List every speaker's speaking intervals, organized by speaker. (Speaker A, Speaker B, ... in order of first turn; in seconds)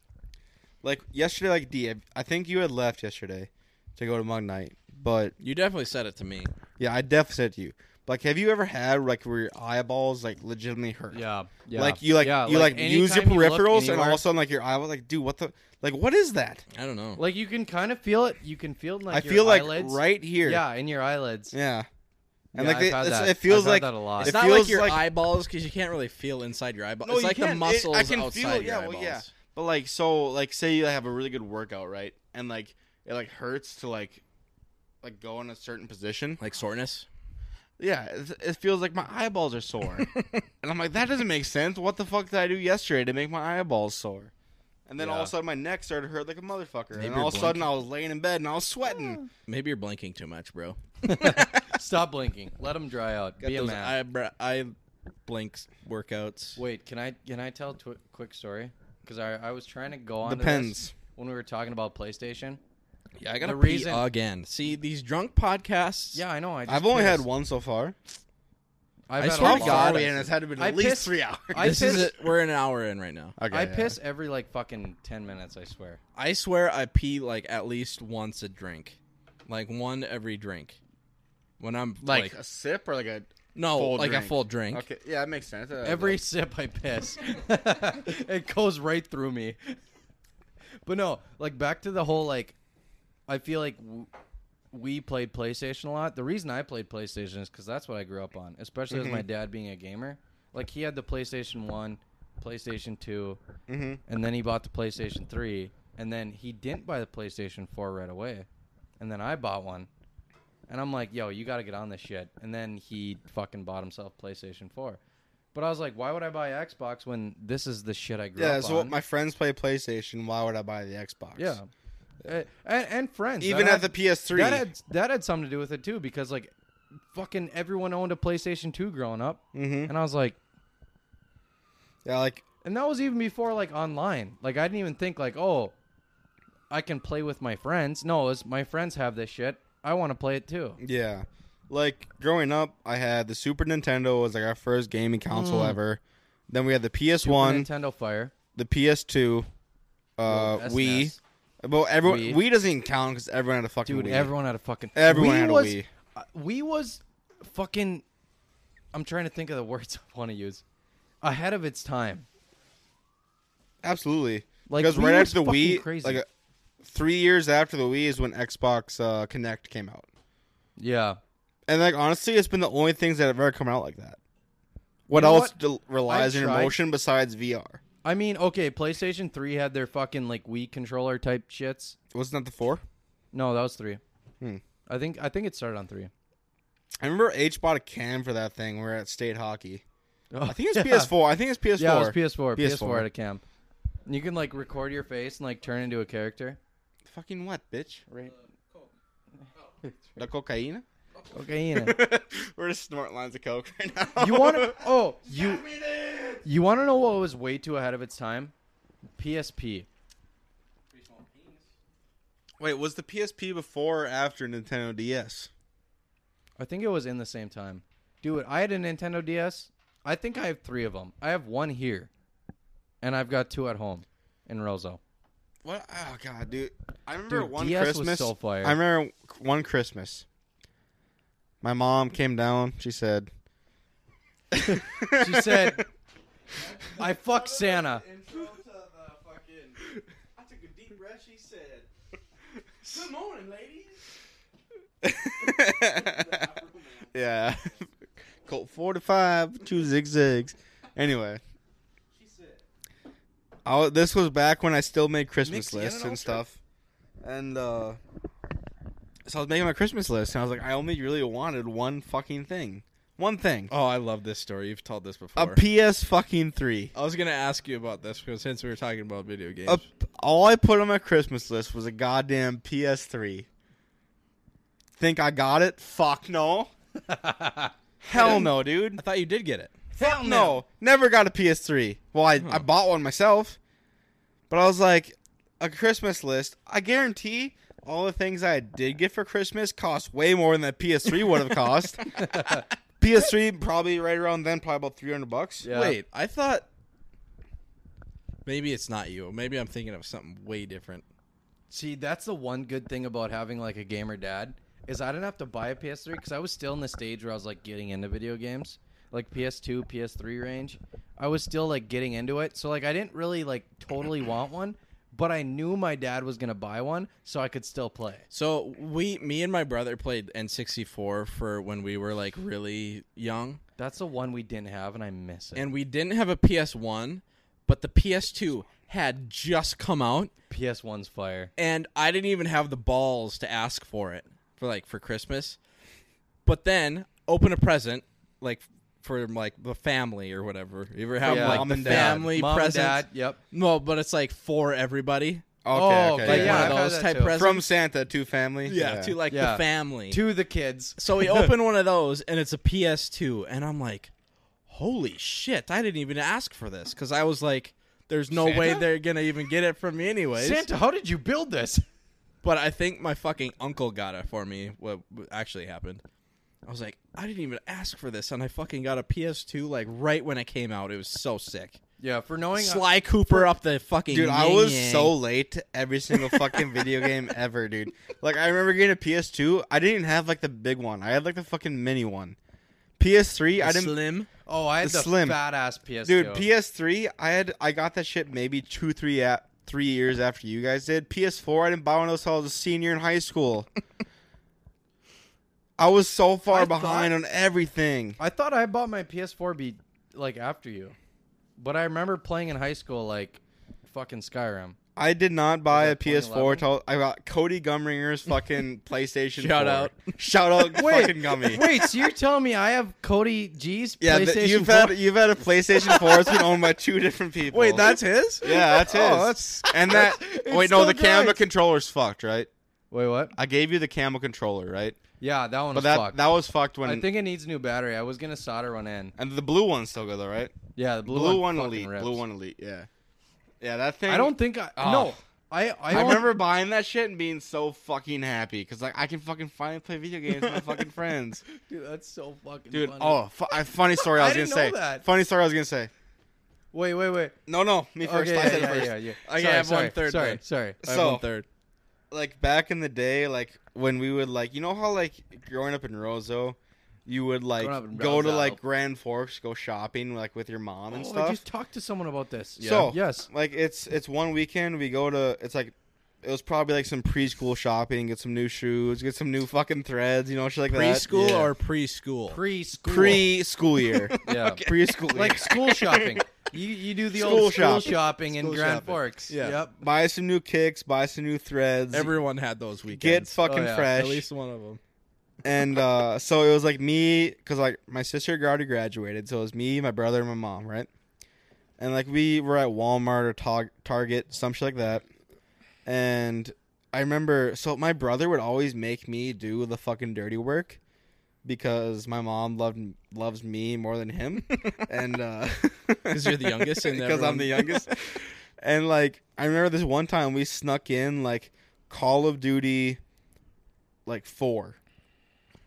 Speaker A: 0.8-5.3, 6.8-11.2, 11.7-16.6, 19.1-20.6, 21.5-21.9, 22.5-25.0, 27.0-34.2, 35.0-36.4, 37.8-44.3, 44.9-49.2, 60.2-60.9, 66.7-68.0, 69.3-72.1, 73.4-74.0, 82.0-86.2, 98.9-99.2, 103.7-104.0, 118.3-121.6, 123.4-124.7, 129.5-129.9, 132.0-132.4, 140.8-147.7, 148.5-149.5, 150.2-154.3, 154.9-155.9, 163.8-166.3, 166.8-170.1, 171.7-174.2, 175.1-177.8, 182.1-182.8, 187.0-189.8, 190.4-193.1, 197.0-198.0, 200.2-200.8, 201.7-204.8, 212.6-215.5, 225.6-230.2, 231.6-233.3, 234.5-235.8, 245.0-246.5, 247.1-247.9, 248.4-251.4, 253.6-256.6, 257.2-258.0, 259.2-263.7, 265.4-266.9, 269.7-273.5, 275.0-276.7, 278.0-279.0, 280.0-283.6, 284.5-292.2, 293.0-295.7, 341.2-342.3, 345.6-346.8, 347.3-349.1, 358.4-358.8, 374.1-382.4, 383.0-383.9, 384.8-385.4, 386.0-393.7, 395.8-398.2, 404.9-411.6, 414.0-422.5, 423.3-425.0, 425.7-427.1, 429.2-430.5, 431.1-432.9, 433.6-435.1, 435.9-441.4, 442.7-445.9, 447.5-448.9, 450.8-451.2, 452.1-461.4, 462.6-471.5, 472.8-476.2, 477.1-478.0, 479.8-482.1, 482.9-484.3, 485.4-490.9, 491.8-495.0, 495.8-500.8, 501.4-513.0, 514.0-514.8
Speaker B: 5.4-6.5, 16.7-17.2, 24.2-29.3, 36.4-37.1, 40.0-40.4, 46.9-47.7, 49.5-51.7, 53.4-54.7, 55.2-56.6, 63.2-66.2, 69.2-70.2, 71.6-73.3, 76.1-80.8, 81.6-82.3, 83.5-84.8, 205.3-206.4, 210.9-211.7, 236.5-241.9, 242.8-244.0, 245.7-247.5, 252.1-252.6, 263.7-265.6, 266.9-269.8, 278.1-279.7, 282.4-282.6, 295.7-296.6, 298.4-301.0, 318.3-323.6, 325.6-330.3, 331.6-335.6, 336.4-345.4, 346.2-347.7, 348.6-350.2, 351.0-354.1, 354.7-360.6, 362.4-366.0, 366.6-371.8, 372.6-375.1, 383.6-384.3, 409.4-410.1, 417.5-419.6, 449.2-451.4, 462.6-462.9, 470.7-472.4, 474.0-474.8, 477.6-479.6, 481.9-483.4, 483.9-484.8, 506.1-507.9
Speaker C: 11.1-14.2, 17.2-21.5, 22.5-24.4, 45.0-45.3, 51.0-54.0, 56.6-62.6, 63.4-64.0, 66.1-67.2, 69.1-72.1, 73.5-76.0, 85.8-89.8, 90.8-92.5, 93.3-94.1, 94.7-103.4, 104.1-108.5, 109.0-109.9, 110.7-115.0, 115.5-119.0, 121.3-121.7, 122.2-126.5, 127.0-130.4, 132.6-135.7, 136.7-140.8, 145.3-145.8, 147.2-148.3, 150.2-151.2, 152.0-152.4, 153.8-158.0, 158.9-160.6, 161.2-162.2, 164.7-166.2, 170.8-171.2, 175.1-176.8, 178.0-182.0, 183.3-184.0, 184.9-186.1, 190.3-191.1, 191.8-193.4, 194.1-196.6, 201.3-202.0, 204.2-205.7, 206.4-208.5, 209.2-209.9, 216.6-222.1, 223.0-225.0, 227.3-228.8, 234.7-235.8, 236.9-238.1, 255.4-256.4, 277.1-278.5, 279.9-280.6, 292.1-292.6, 295.6-296.0, 301.7-318.2, 323.8-325.7, 330.5-331.5, 341.2-343.4, 345.7-347.3, 349.3-351.5, 358.5-358.8, 360.4-361.8, 372.0-373.5, 384.4-386.4, 396.5-397.1, 398.2-400.9, 401.6-404.8, 405.7-406.6, 410.7-415.0, 415.8-416.1, 417.8-421.4, 422.9-423.3, 425.2-426.2, 426.8-429.1, 430.8-432.2, 434.1-436.4, 441.5-443.2, 444.0-445.1, 446.7-447.4, 448.0-450.8, 457.6-458.6, 460.9-463.3, 472.3-473.3, 474.2-479.8, 483.4-483.9